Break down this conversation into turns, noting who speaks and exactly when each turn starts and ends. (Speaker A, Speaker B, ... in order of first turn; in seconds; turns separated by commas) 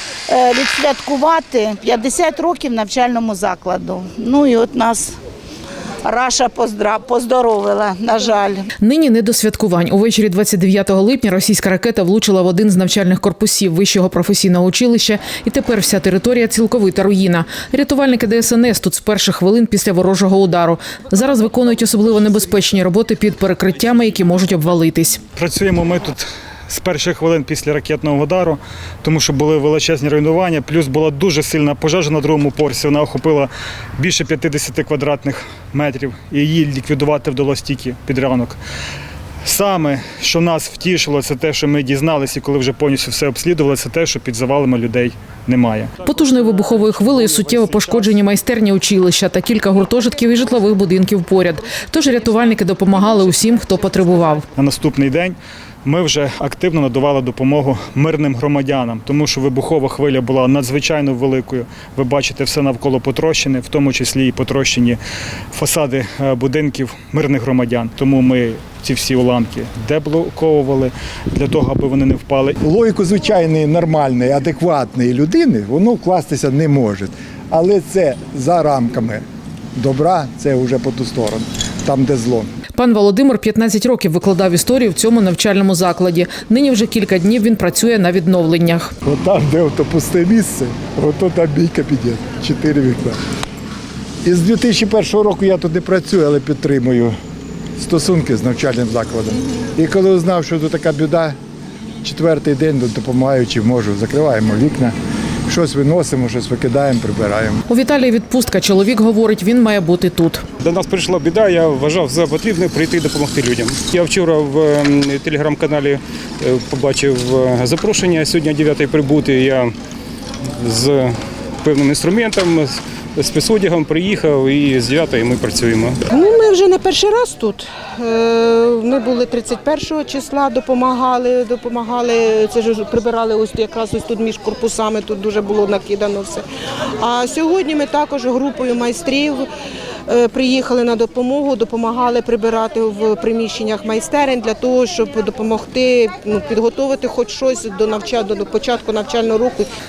Speaker A: 0.3-5.2, Speaker A: 6.0-8.7, Speaker B: 8.8-25.2, Speaker C: 25.2-38.6, Speaker C: 39.4-46.0, Speaker B: 46.0-54.4, Speaker C: 54.5-65.0, Speaker C: 65.5-72.6, Speaker D: 72.6-79.2, Speaker D: 79.8-82.5, Speaker B: 82.8-88.9, Speaker D: 89.0-93.2, Speaker D: 94.2-97.1, Speaker D: 97.8-101.3, Speaker D: 102.0-104.9, Speaker D: 105.5-107.6, Speaker B: 107.7-110.4, Speaker E: 110.6-119.7, Speaker E: 120.6-125.9, Speaker F: 126.1-136.4, Speaker F: 137.0-139.5, Speaker F: 140.1-149.7